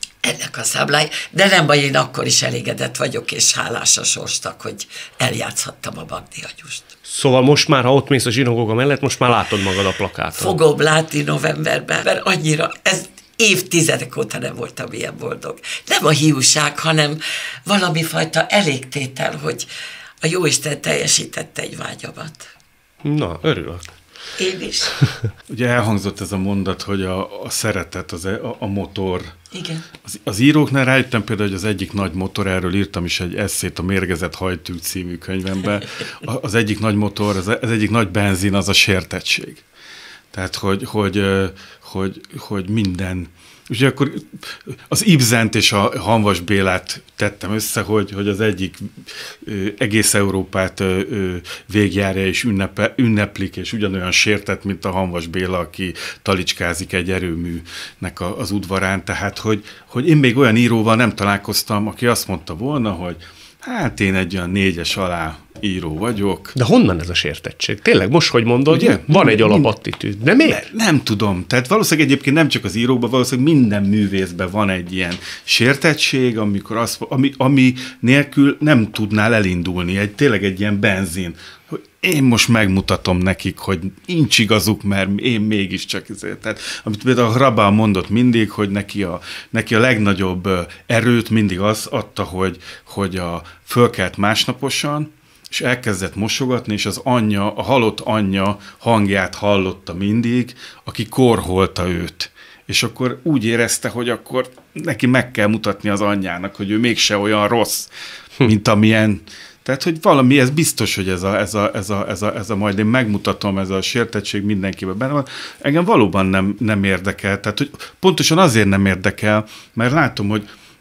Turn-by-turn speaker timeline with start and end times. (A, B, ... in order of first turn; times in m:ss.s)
0:00.2-0:06.8 A
0:07.0-0:10.6 B
0:10.3-0:19.7 A
0:20.2-0:22.5 A
0:23.0-0:23.9 B
0:24.4-0:24.9 A
0:25.5-0:29.3 C
0:29.5-0:29.8 A
0:30.0-0:39.6 C
0:40.3-1:06.5 C
1:06.5-1:10.6 B
1:08.7-1:09.7 C
1:10.4-2:00.5 C